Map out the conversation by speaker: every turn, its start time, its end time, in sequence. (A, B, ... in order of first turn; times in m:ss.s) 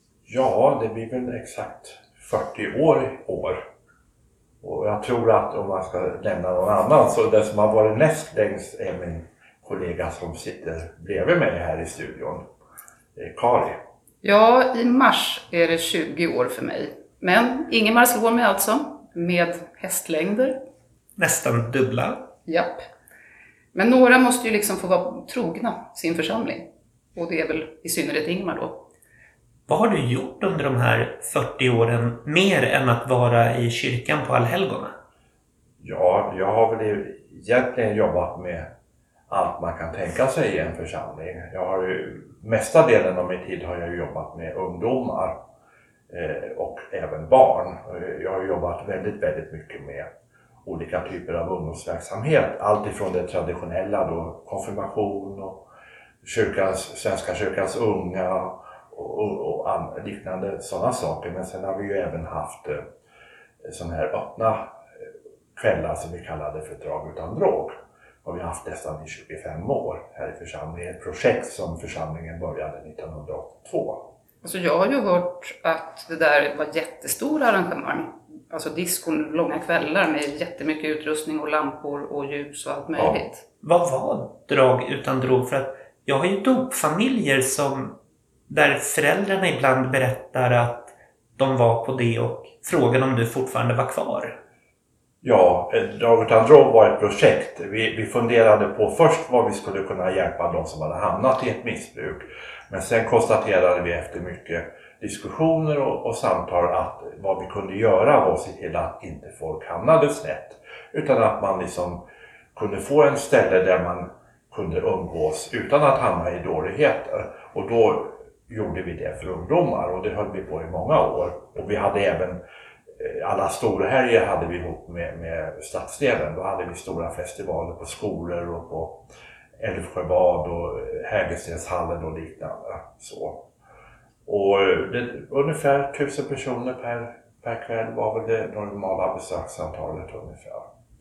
0:00.3-0:03.6 A
0:04.6-0:12.4 A
0:13.2-0:13.8 A
0:14.2-0:20.6 B
0:21.2-0:22.3 C
0:22.5-0:22.8 B
0:23.7-0:28.9 B
0:29.7-0:34.9 C
0:35.8-0:38.7 A
0:39.3-0:45.4 A
0:46.1-0:50.1 A
0:50.6-0:55.6 A
0:56.2-1:02.8 A
1:03.6-1:04.8 A
1:05.6-1:14.0 A
1:14.4-1:23.4 B
1:23.6-1:28.0 C
1:28.5-1:34.4 C
1:35.2-1:52.0 A
1:52.6-2:02.4 A
2:03.0-2:09.0 A
2:09.6-2:13.5 A
2:14.3-2:20.7 A